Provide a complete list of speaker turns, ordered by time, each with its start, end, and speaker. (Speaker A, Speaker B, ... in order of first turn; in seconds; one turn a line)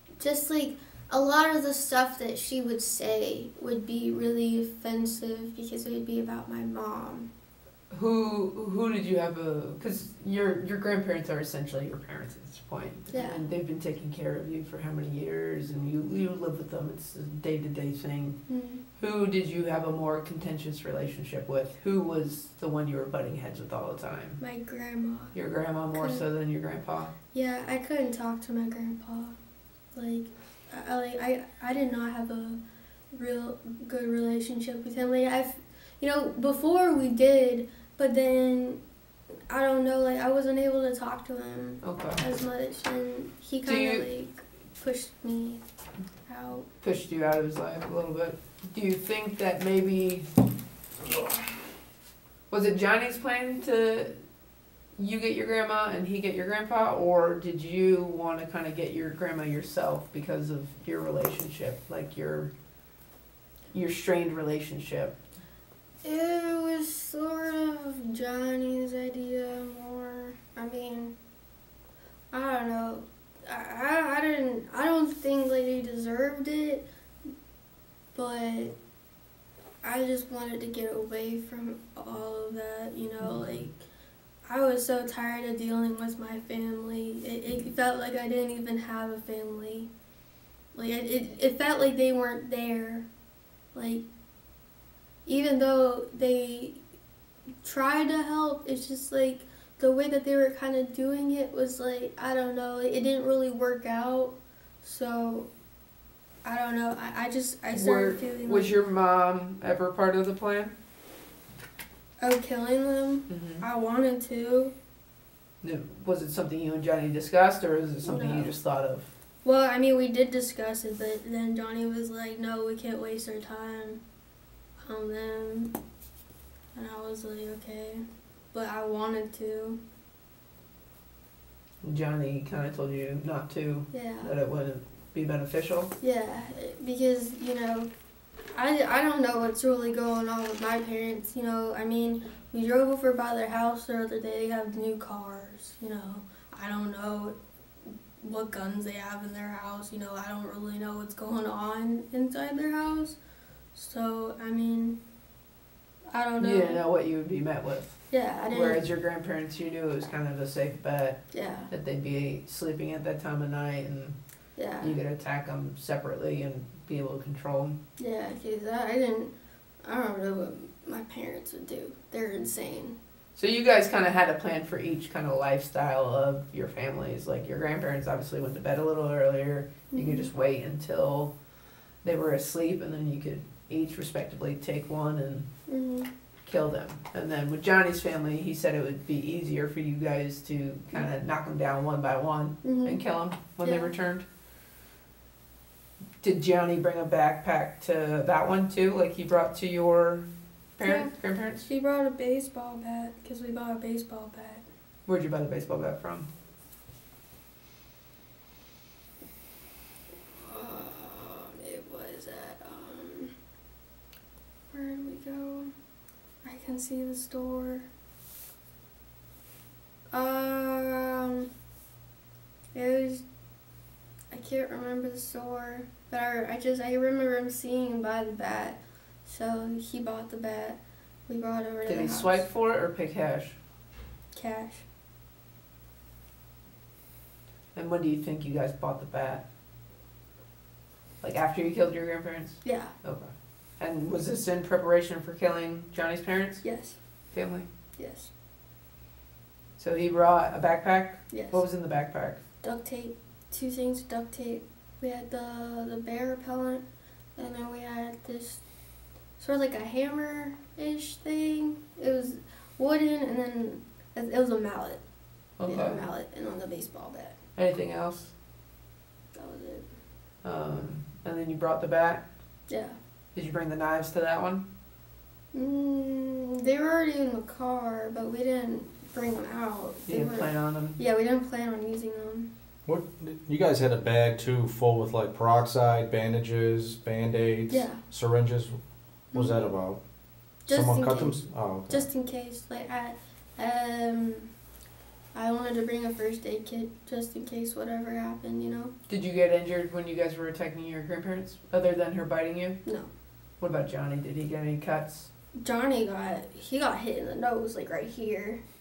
Speaker A: 0.2-7.3
Speaker B: 7.9-18.4
Speaker A: 13.1-13.4
Speaker A: 18.5-18.8
Speaker B: 19.0-24.4
Speaker A: 24.4-25.4
Speaker B: 25.3-27.1
Speaker A: 25.9-26.2
Speaker A: 27.3-29.4
Speaker A: 29.9-32.6
Speaker A: 33.1-38.8
Speaker A: 39.5-45.6
Speaker B: 41.8-42.2
Speaker B: 43.6-44.1
Speaker A: 46.3-46.6
Speaker B: 46.8-50.3
Speaker B: 52.5-54.1
Speaker B: 55.0-62.5
Speaker B: 63.7-65.2
Speaker A: 66.0-71.2
Speaker A: 72.3-76.8
Speaker A: 78.1-78.7
Speaker A: 79.8-83.7
Speaker B: 83.2-83.5
Speaker A: 84.5-89.9
Speaker A: 90.7-93.1
Speaker A: 93.7-94.0
Speaker A: 95.2-96.8
Speaker A: 97.6-105.5
Speaker A: 106.4-108.7
Speaker B: 107.7-110.7
Speaker A: 112.2-114.7
Speaker B: 113.3-113.6
Speaker B: 115.6-119.1
Speaker A: 118.0-118.5
Speaker A: 119.4-124.0
Speaker A: 124.8-125.8
Speaker A: 126.7-129.8
Speaker B: 131.8-135.9
Speaker A: 133.9-134.3
Speaker A: 136.0-137.9
Speaker A: 138.5-147.3
Speaker A: 148.2-153.2
Speaker A: 153.7-155.0
Speaker A: 156.1-156.8
Speaker B: 156.4-164.2
Speaker A: 158.1-158.8
Speaker A: 161.3-161.7
Speaker A: 164.6-165.0
Speaker B: 164.8-167.8
Speaker A: 168.0-169.3
Speaker A: 169.8-173.0
Speaker B: 173.3-181.3
Speaker A: 179.9-180.3
Speaker B: 182.0-185.5
Speaker A: 185.7-186.1
Speaker B: 186.4-194.2
Speaker A: 192.6-193.0
Speaker A: 193.6-193.9
Speaker B: 196.2-200.3
Speaker B: 200.8-201.7
Speaker A: 200.8-201.1
Speaker A: 201.7-204.6
Speaker B: 205.1-206.3
Speaker A: 210.4-213.3
Speaker A: 214.7-215.7
Speaker A: 216.4-217.9
Speaker A: 220.1-221.5
Speaker A: 222.7-223.2
Speaker A: 224.3-232.4
Speaker B: 231.8-233.6
Speaker A: 234.3-234.8
Speaker B: 237.7-239.4
Speaker B: 241.2-246.6
Speaker A: 242.6-242.9
Speaker A: 246.6-247.0
Speaker B: 247.3-247.7
Speaker A: 248.0-248.3
Speaker B: 249.8-252.4
Speaker A: 251.3-251.6
Speaker A: 252.6-256.8
Speaker A: 257.4-258.6
Speaker A: 259.4-265.0
Speaker B: 265.6-266.0
Speaker A: 265.7-267.4
Speaker B: 267.6-268.3
Speaker A: 269.3-269.9
Speaker B: 270.4-272.2
Speaker A: 272.7-273.0
Speaker B: 273.3-274.7
Speaker A: 275.5-282.5
Speaker B: 280.1-281.0
Speaker C: 282.9-288.8
Speaker A: 287.7-288.0
Speaker A: 289.3-289.7
Speaker C: 289.3-290.0
Speaker A: 290.7-294.5
Speaker C: 290.7-292.1
Speaker A: 295.3-298.9
Speaker B: 299.1-302.8
Speaker B: 303.6-305.3
Speaker A: 305.6-308.6